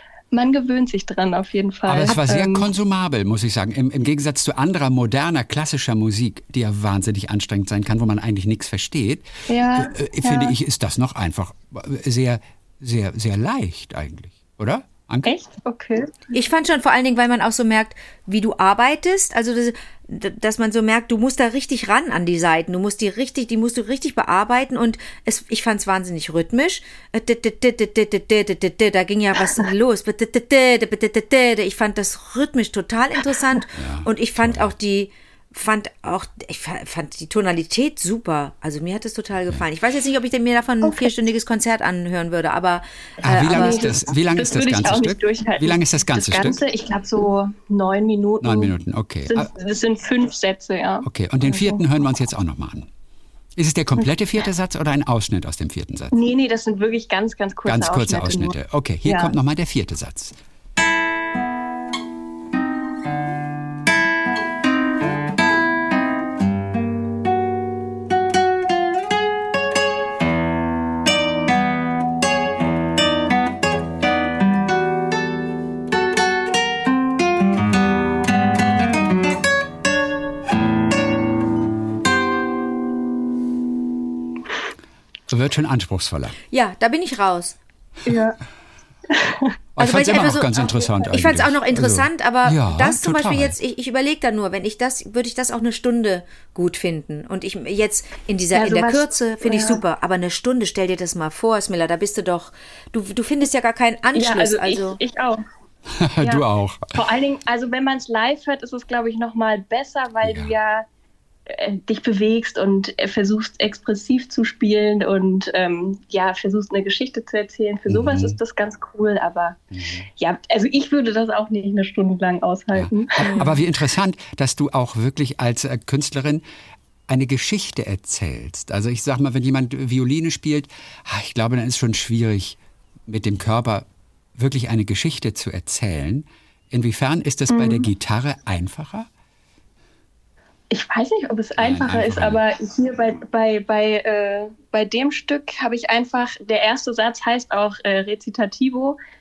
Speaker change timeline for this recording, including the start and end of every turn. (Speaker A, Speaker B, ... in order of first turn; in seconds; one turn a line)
Speaker A: 0.3-2.7
Speaker B: 1.9-15.3
Speaker A: 9.5-10.5
Speaker A: 15.2-16.1
Speaker C: 16.3-43.9
Speaker B: 33.8-34.7
Speaker B: 43.2-46.6
Speaker A: 43.5-48.7
Speaker B: 48.4-49.5
Speaker A: 49.3-51.8
Speaker B: 51.0-52.9
Speaker B: 53.5-56.1
Speaker A: 56.1-59.3
Speaker B: 57.6-60.4
Speaker B: 85.3-86.4
Speaker C: 86.5-87.5
Speaker A: 88.0-88.4
Speaker A: 89.1-89.5
Speaker B: 89.8-93.5
Speaker C: 89.8-105.0
Speaker A: 98.5-99.8
Speaker A: 104.2-105.4
Speaker B: 105.9-107.0
Speaker A: 106.2-110.9
Speaker B: 110.2-110.5
Speaker A: 111.5-119.6
Speaker B: 117.9-118.4
Speaker B: 119.7-120.1
Speaker A: 120.2-123.3
Speaker B: 122.7-126.4
Speaker C: 123.2-123.6
Speaker B: 127.1-139.1
Speaker A: 137.5-137.9
Speaker A: 140.7-149.0
Speaker B: 141.6-142.4